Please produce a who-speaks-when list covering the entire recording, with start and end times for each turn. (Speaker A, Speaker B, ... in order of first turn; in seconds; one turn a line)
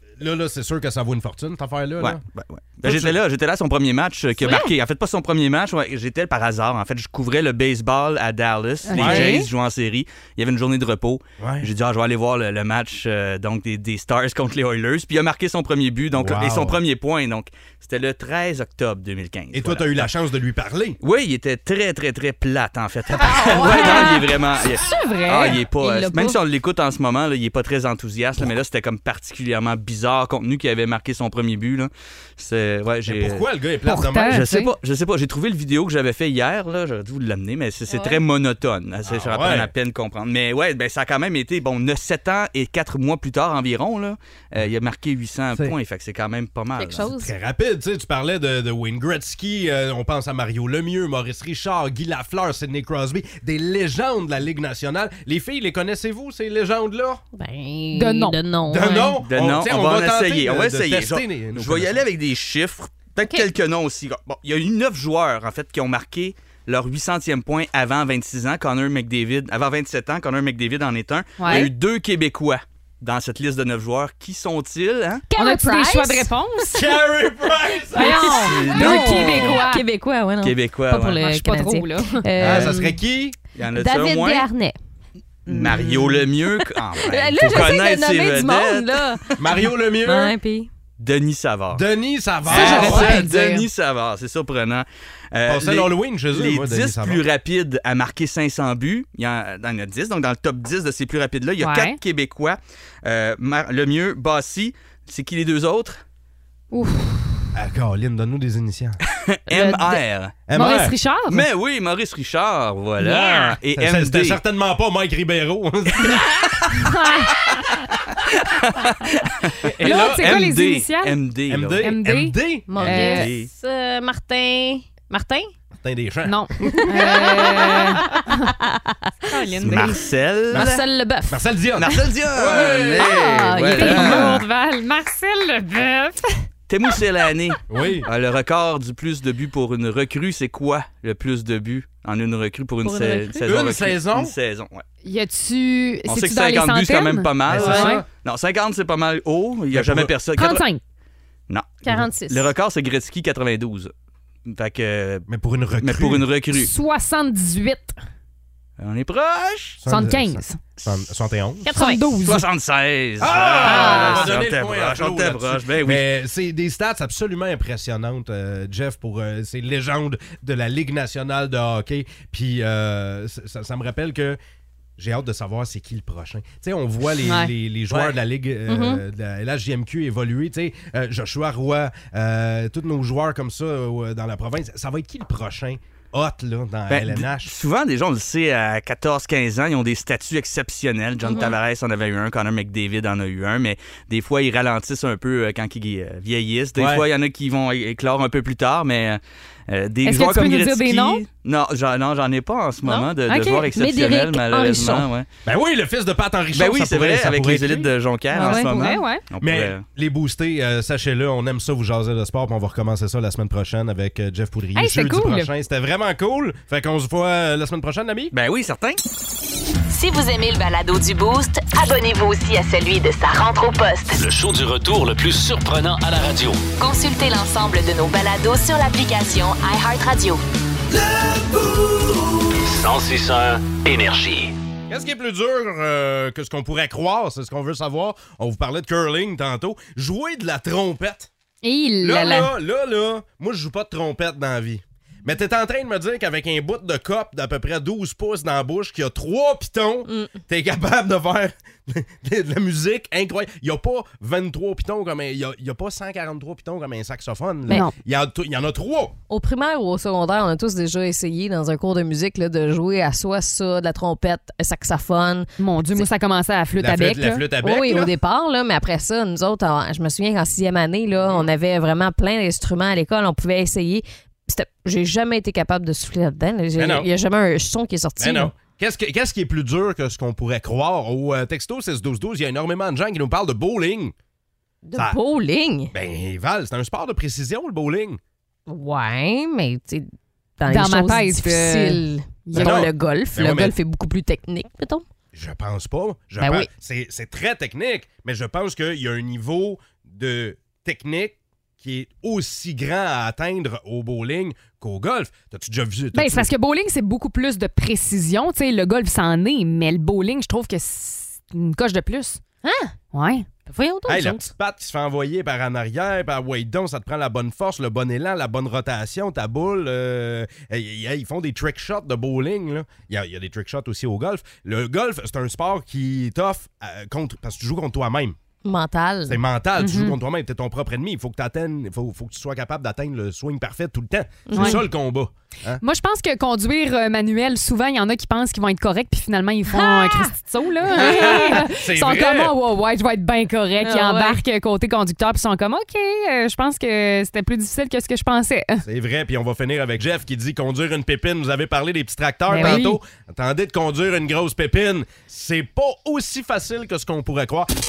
Speaker A: 0.2-2.2
Speaker B: 2.0-20.1
Speaker A: 2.8-3.1
Speaker C: 4.4-4.7
Speaker C: 8.8-9.5
Speaker A: 8.9-9.3
Speaker A: 11.4-11.7
Speaker A: 16.1-16.8
Speaker A: 19.5-21.0
Speaker B: 21.0-33.4
Speaker C: 23.2-24.2
Speaker D: 23.5-24.2
Speaker C: 24.8-25.9
Speaker D: 25.7-26.4
Speaker A: 33.1-34.5
Speaker C: 33.9-34.7
Speaker B: 34.3-47.1
Speaker D: 37.9-38.2
Speaker A: 39.0-39.7
Speaker D: 46.8-47.3
Speaker A: 47.0-57.2
Speaker D: 57.4-59.2
Speaker C: 57.9-58.4
Speaker A: 58.7-62.0
Speaker B: 59.3-75.2
Speaker D: 63.2-63.5
Speaker C: 71.4-71.7
Speaker D: 75.3-76.3
Speaker C: 75.3-76.8
Speaker A: 76.7-78.4
Speaker D: 77.9-82.9
Speaker C: 77.9-79.8
Speaker B: 78.4-79.6
Speaker B: 80.4-81.2
Speaker C: 81.2-82.2
Speaker B: 82.4-82.7
Speaker A: 82.4-83.4
Speaker B: 83.5-84.5
Speaker D: 83.7-84.8
Speaker B: 85.5-89.5
Speaker D: 85.5-89.2
Speaker A: 89.4-90.3
Speaker D: 90.0-90.7
Speaker B: 91.0-91.8
Speaker A: 91.7-93.2
Speaker B: 92.4-106.0
Speaker C: 92.5-93.7
Speaker A: 95.5-97.2
Speaker C: 101.6-102.0
Speaker C: 106.7-107.5
Speaker A: 107.5-109.0
Speaker B: 109.1-110.4
Speaker C: 109.5-111.4
Speaker A: 110.5-110.9
Speaker B: 111.3-114.4
Speaker C: 113.0-113.5
Speaker A: 113.8-116.4
Speaker C: 116.7-117.7
Speaker B: 118.6-121.9
Speaker A: 119.7-120.4
Speaker C: 119.8-121.2
Speaker A: 121.5-122.7
Speaker C: 121.8-123.3
Speaker D: 122.7-125.5
Speaker B: 122.8-123.5
Speaker A: 125.8-126.9
Speaker C: 126.2-128.5
Speaker D: 126.8-129.1
Speaker C: 129.3-130.0
Speaker B: 129.6-130.8
Speaker D: 129.7-129.9
Speaker D: 130.5-131.4
Speaker A: 131.3-133.2
Speaker B: 131.8-134.4
Speaker D: 132.5-134.4
Speaker C: 133.7-136.4
Speaker B: 136.7-144.8
Speaker A: 137.7-138.1
Speaker D: 142.8-143.5
Speaker A: 143.4-144.3
Speaker C: 145.0-148.0
Speaker B: 146.1-150.6
Speaker A: 147.4-148.1
Speaker D: 147.6-147.8
Speaker A: 149.7-150.1
Speaker C: 150.3-150.8
Speaker B: 151.5-153.9
Speaker D: 151.8-152.5
Speaker B: 154.4-155.2
Speaker A: 155.3-156.3
Speaker B: 155.8-156.7
Speaker C: 156.5-158.0
Speaker B: 158.8-159.8
Speaker A: 159.8-161.7
Speaker C: 159.9-160.6
Speaker D: 161.7-162.1
Speaker C: 161.7-162.4
Speaker B: 162.2-166.0
Speaker A: 163.2-174.4
Speaker D: 163.6-164.0
Speaker C: 163.6-164.2
Speaker A: 175.0-187.5
Speaker C: 177.2-177.5
Speaker D: 178.7-179.0
Speaker B: 186.9-205.3
Speaker A: 196.7-197.0
Speaker C: 200.0-201.2
Speaker D: 202.8-205.1
Speaker C: 203.3-203.7
Speaker A: 205.4-207.9
Speaker B: 206.5-209.8
Speaker D: 208.3-208.8
Speaker C: 208.3-209.2
Speaker A: 209.4-218.3
Speaker C: 214.8-215.5
Speaker B: 218.3-219.0
Speaker E: 219.9-224.2
Speaker F: 224.2-226.7
Speaker E: 226.8-230.4
Speaker F: 232.6-234.5
Speaker A: 234.9-241.3
Speaker C: 241.6-242.5
Speaker A: 242.0-259.1
Speaker D: 250.1-250.4
Speaker D: 259.3-266.1
Speaker C: 265.6-267.5
Speaker A: 266.8-268.1
Speaker D: 267.6-278.5
Speaker A: 276.8-277.1
Speaker A: 278.2-284.1
Speaker D: 284.8-285.9
Speaker A: 285.9-288.2
Speaker D: 288.7-295.0
Speaker C: 290.7-292.8
Speaker A: 292.5-293.8
Speaker A: 295.3-306.5
Speaker D: 296.4-296.7
Speaker C: 306.1-312.4
Speaker D: 312.6-312.9
Speaker C: 313.1-313.5
Speaker D: 313.7-314.5
Speaker A: 314.1-328.4
Speaker D: 328.6-329.4
Speaker A: 329.3-335.8
Speaker C: 329.8-330.1
Speaker D: 334.5-334.8
Speaker C: 334.5-334.8
Speaker C: 335.8-348.8
Speaker D: 339.7-340.4
Speaker A: 340.9-342.5
Speaker D: 340.9-341.6
Speaker D: 343.8-344.4
Speaker A: 348.8-357.7
Speaker C: 352.5-353.0